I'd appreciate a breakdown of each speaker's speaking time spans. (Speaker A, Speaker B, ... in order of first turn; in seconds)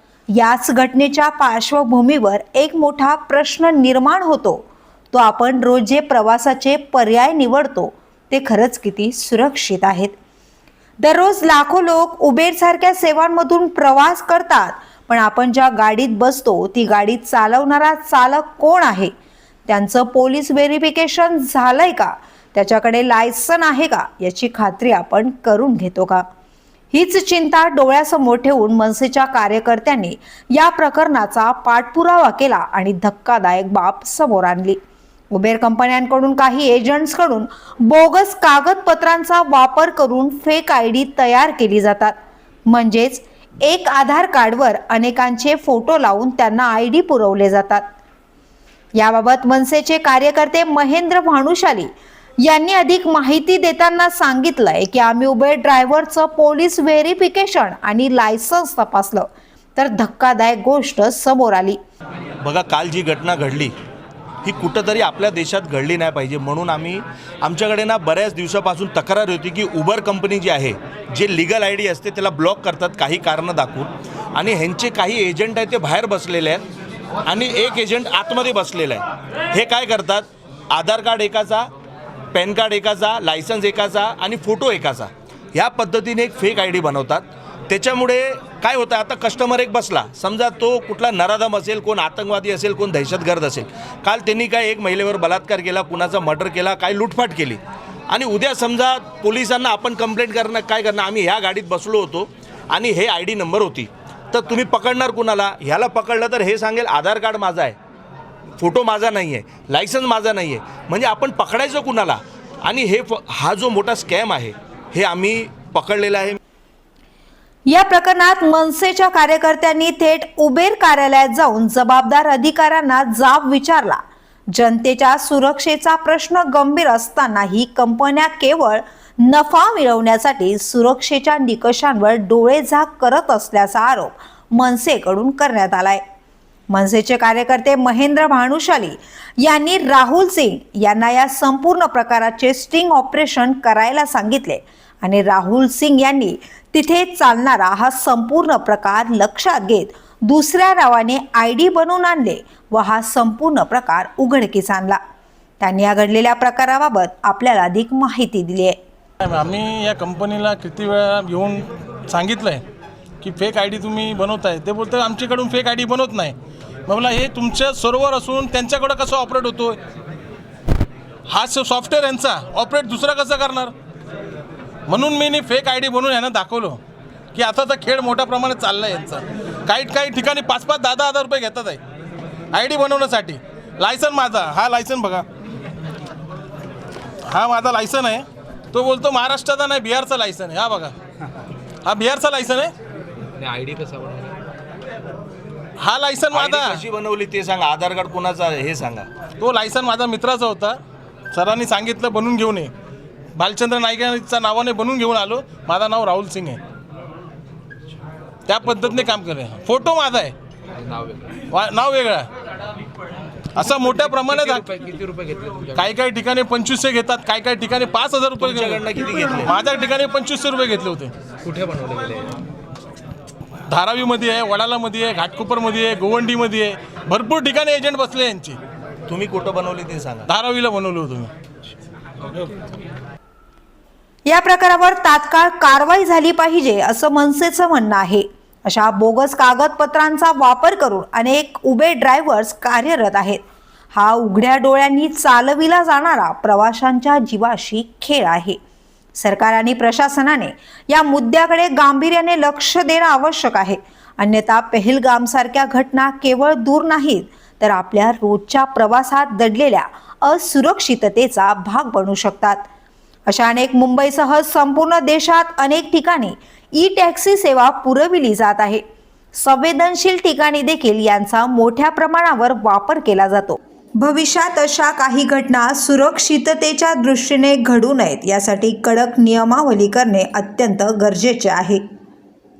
Speaker A: 0.3-10.2, 11.0-19.1, 19.7-26.2, 26.9-34.8, 35.3-42.1, 42.7-47.8, 48.9-61.8, 117.7-136.0, 136.7-155.0, 155.6-158.8, 234.2-243.4, 243.9-248.6, 249.2-262.7, 263.3-268.8, 269.3-281.8
Speaker B: 62.4-63.7, 64.4-76.6, 77.2-81.7, 82.3-107.8, 108.6-116.4, 196.3-199.1, 218.4-219.5, 229.1-230.3
Speaker C: 159.2-162.6, 163.2-166.3, 166.9-169.8, 171.3-173.7, 174.9-176.8, 177.3-181.8, 182.5-185.2, 187.3-190.9, 191.8-192.7, 195.8-196.8, 199.4-200.8, 201.3-202.7, 203.3-206.6, 208.5-210.3, 211.5-212.3, 213.5-214.7, 215.7-221.1, 223.7-228.6, 230.3-231.3
Speaker D: 193.3-194.3, 210.8-211.3, 213.8-215.8, 221.4-222.4